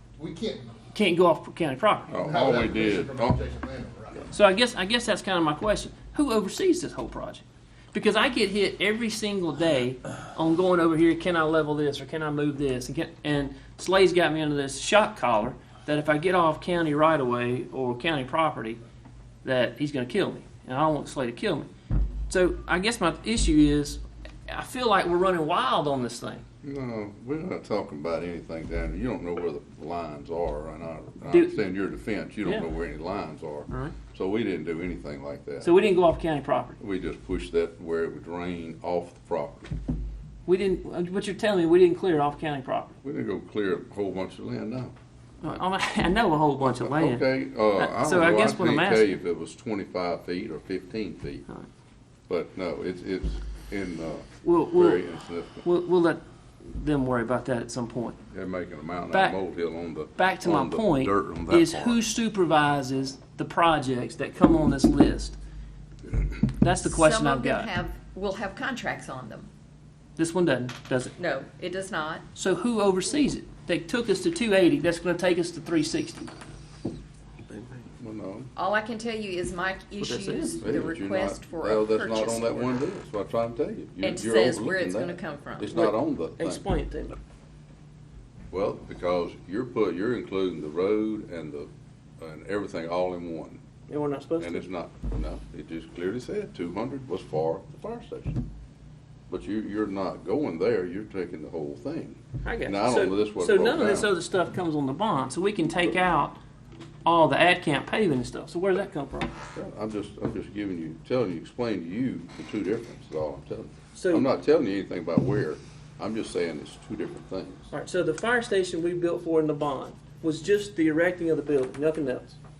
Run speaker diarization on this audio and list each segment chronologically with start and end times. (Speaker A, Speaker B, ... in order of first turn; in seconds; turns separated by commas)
Speaker A: 0.2-0.7, Speaker B: 0.9-2.1, Speaker C: 2.1-3.4, Speaker A: 2.1-4.3, Speaker B: 4.3-18.8, Speaker B: 19.4-21.7, Speaker B: 22.3-26.4, Speaker C: 26.6-35.7, Speaker B: 31.3-31.6, Speaker B: 32.4-32.7, Speaker B: 33.7-33.9, Speaker B: 35.6-36.8, Speaker C: 36.8-39.7, Speaker B: 40.5-43.0, Speaker C: 43.0-44.9, Speaker B: 45.4-49.2, Speaker C: 46.8-51.5, Speaker C: 52.3-55.6, Speaker B: 54.4-55.1, Speaker B: 55.6-58.2, Speaker C: 58.3-62.0, Speaker B: 59.1-59.4, Speaker B: 60.1-65.4, Speaker B: 66.6-67.7, Speaker D: 66.8-69.5, Speaker B: 70.2-71.1, Speaker D: 71.2-72.2, Speaker B: 72.3-76.3, Speaker C: 78.0-78.5, Speaker D: 78.5-82.8, Speaker B: 80.0-80.6, Speaker C: 80.6-86.6, Speaker D: 84.0-85.8, Speaker B: 85.8-87.2, Speaker C: 88.5-93.6, Speaker B: 93.9-94.6, Speaker C: 94.4-98.4, Speaker C: 99.3-104.1, Speaker B: 102.4-106.4, Speaker B: 107.0-109.3, Speaker C: 109.5-117.7, Speaker B: 113.9-114.2, Speaker B: 117.7-122.4